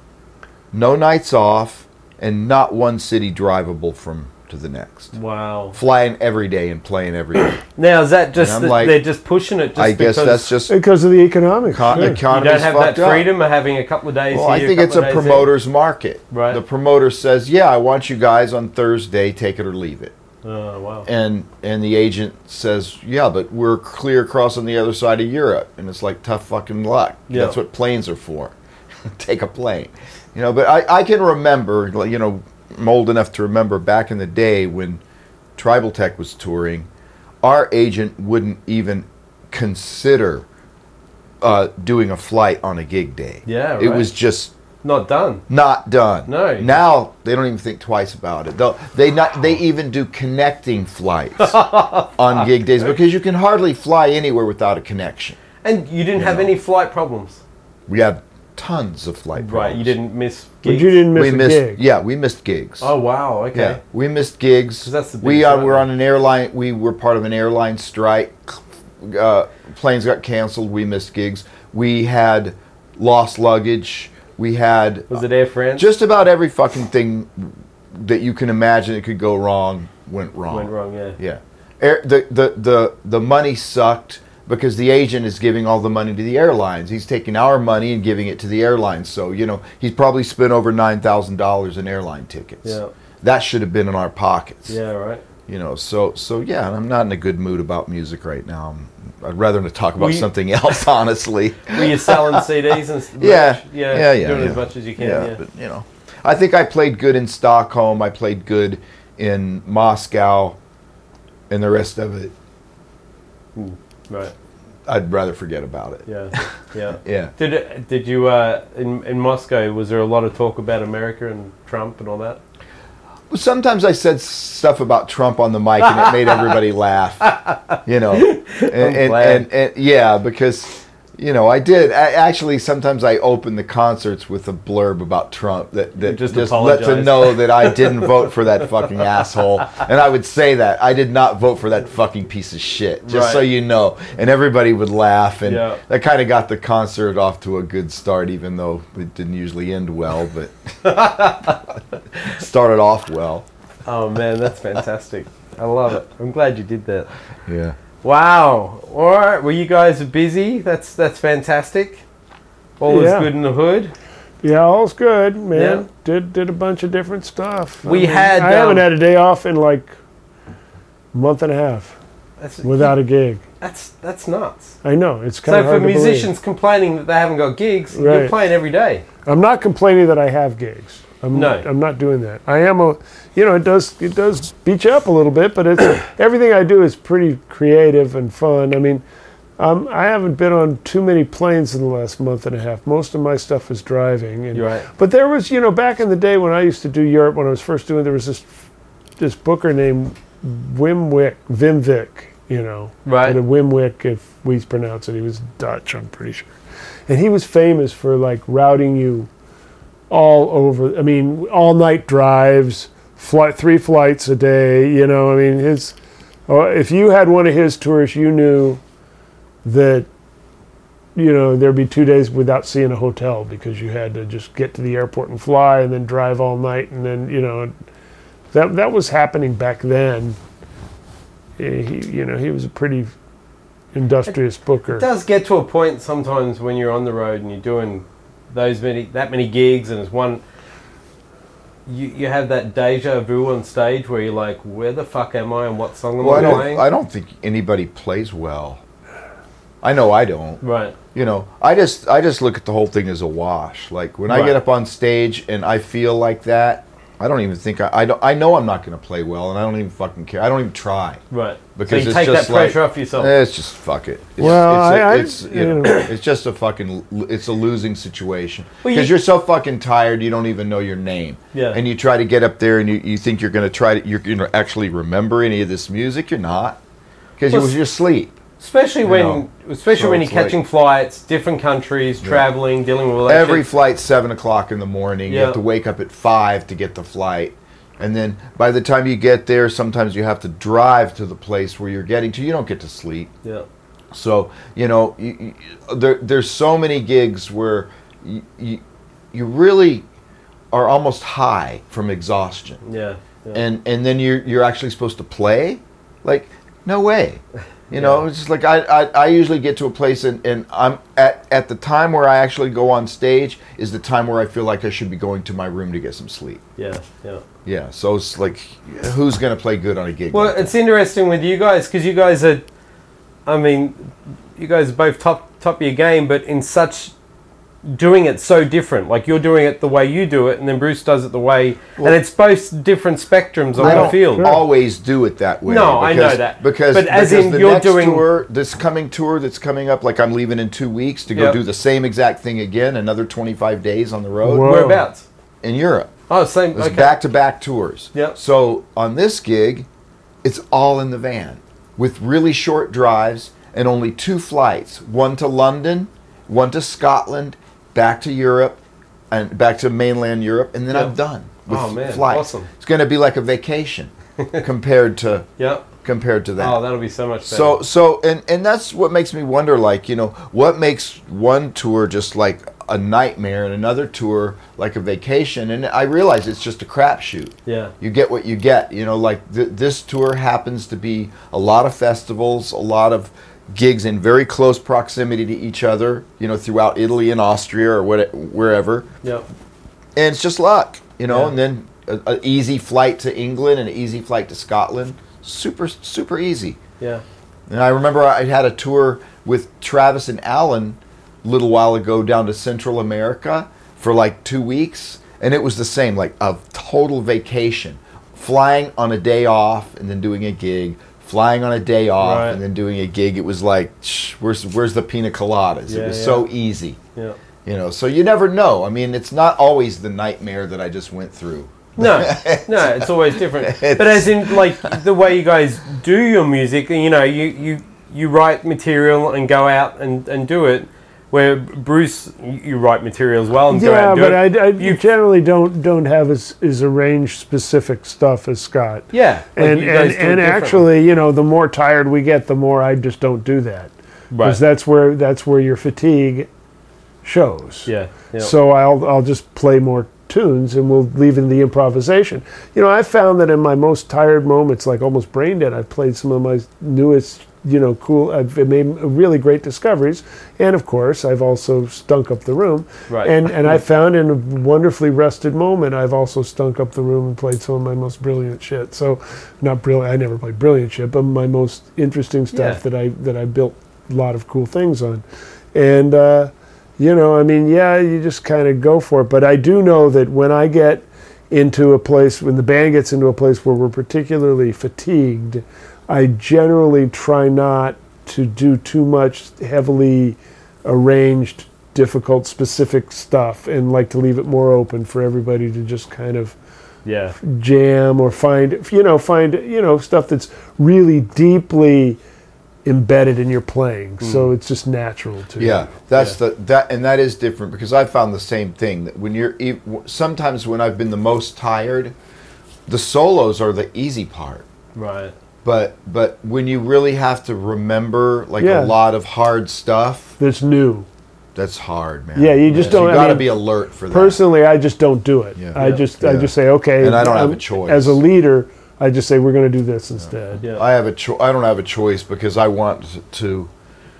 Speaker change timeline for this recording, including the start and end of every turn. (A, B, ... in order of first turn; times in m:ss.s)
0:00.7-0:05.1 A
0:05.1-0:05.8 B
0:05.7-0:07.6 A
0:07.8-0:10.6 B
0:08.4-0:09.0 A
0:09.8-0:10.7 A
0:10.7-0:12.2 C
0:11.7-0:13.3 A
0:11.9-0:15.5 B
0:14.3-0:20.2 A
0:16.3-0:16.6 B
0:20.4-0:21.1 B
0:21.1-0:28.6 A
0:27.3-0:27.6 B
0:29.1-0:35.0 A
0:35.6-0:36.9 A
0:37.4-0:40.5 A
0:41.4-0:44.5 A
0:43.5-0:44.1 B
0:44.8-0:45.4 B
0:45.5-0:51.6 A
0:46.3-0:46.7 B
0:51.4-0:52.5 B
0:52.2-0:55.4 A
0:55.6-0:57.4 B
0:56.2-0:56.5 A
0:57.9-1:00.0 A
0:59.4-1:01.0 B
1:00.6-1:01.8 C
1:01.1-1:02.9 A
1:02.8-1:03.8 B
1:03.5-1:15.2 A
1:04.8-1:05.9 B
1:15.1-1:15.9 B
1:15.8-1:34.8 A
1:20.5-1:21.2 B
1:32.6-1:32.9 B
1:34.7-1:35.2 B
1:35.5-1:42.5 A
1:40.0-1:40.3 B
1:41.7-1:45.4 B
1:43.2-1:50.6 A
1:51.5-1:52.3 A
1:53.6-1:54.3 B
1:54.9-1:57.3 A
1:56.1-2:02.4 B
2:03.3-2:07.3 A
2:05.8-2:06.6 B
2:07.2-2:09.5 B
2:07.8-2:30.9 A
2:16.0-2:18.3 B
2:23.1-2:23.4 B
2:25.5-2:25.8 B
2:30.8-2:31.6 B
2:32.3-2:33.5 A
2:33.8-2:37.1 B
2:37.5-2:37.8 A
2:38.0-2:42.0 B
2:42.8-2:43.9 B
2:42.9-2:43.3 C
2:44.4-2:49.9 C
2:45.6-2:45.8 B
2:47.8-2:48.9 B
2:51.1-2:52.0 C
2:52.4-2:53.0 B
2:52.6-2:53.4 C
2:53.6-2:54.8 B
2:54.8-2:56.3 C
2:55.5-2:59.0 B
2:57.9-2:58.3 C
2:59.3-3:09.0 C
3:01.3-3:01.6 B
3:09.6-3:18.5 C
3:14.5-3:14.8 B
3:19.2-3:26.6 C
3:23.1-3:23.4 B
3:27.1-3:29.3 C
3:30.1-3:36.0 C
3:36.5-3:38.8 C
3:39.6-3:40.1 C
3:41.2-3:47.7 C
3:48.5-3:50.4 C
3:51.6-3:53.2 C
3:53.9-3:55.1 C
3:54.9-4:00.4 B
4:01.9-4:06.8 B
4:06.2-4:08.8 A
4:09.8-4:10.6 A
4:10.6-4:11.0 B
4:11.1-4:21.2 A
4:14.3-4:14.6 B
4:21.3-4:23.3 B
4:21.8-4:36.8 A
4:24.4-4:26.1 C
4:28.8-4:29.1 B
4:31.5-4:31.8 B
4:37.4-4:38.4 A
4:37.5-4:37.8 B
4:38.6-4:43.6 B
4:39.0-4:40.6 A
4:43.3-4:53.3 A
4:45.3-4:45.6 B
4:54.1-4:58.8 A
4:59.3-5:00.0 A
5:00.7-5:02.8 A
5:02.8-5:03.6 B
5:03.5-5:16.6 A
5:07.9-5:08.3 B
5:16.8-5:17.4 B
5:17.6-5:20.7 A
5:20.3-5:22.6 B
5:23.5-5:27.1 B
5:27.8-5:34.5 B
5:33.8-5:34.6 C
5:33.8-5:44.8 A
5:35.7-5:38.2 B
5:41.3-5:41.6 B
5:44.4-5:45.1 C
5:44.6-5:45.2 B
5:45.6-5:46.1 A
5:46.3-5:47.2 B
5:46.7-5:49.9 A
5:50.4-5:58.8 A
5:59.3-6:05.5 A
6:01.7-6:02.7 B
6:04.4-6:04.7 B
6:05.6-6:05.8 B
6:06.0-6:06.8 A
6:06.6-6:07.8 B
6:07.5-6:29.1 A
6:17.7-6:17.9 B
6:30.2-6:36.8 A
6:31.3-6:31.5 B
6:37.7-6:57.0 A
6:52.2-6:52.6 B
6:55.9-6:56.4 B
6:57.6-7:05.0 A
7:02.0-7:15.0 B
7:13.7-7:26.5 C
7:19.1-7:20.9 B
7:24.3-7:24.6 B
7:27.2-7:55.2 C
7:27.9-7:28.5 B
7:43.1-7:43.4 B
7:52.5-7:52.8 B
7:55.7-8:16.6 C
8:17.0-8:17.4 B
8:17.4-8:22.2 C
8:22.8-8:25.9 C
8:24.2-8:24.5 B
8:25.6-8:32.2 A
8:32.9-8:34.7 A
8:35.0-8:35.3 B
8:35.6-8:40.3 A
8:38.6-8:39.0 C
8:40.4-8:41.1 C
8:41.6-8:44.4 A
8:42.4-8:43.6 C
8:42.7-8:43.1 B
8:44.1-8:50.6 C
8:45.6-8:48.2 A
8:45.8-8:46.0 B
8:50.2-8:53.7 A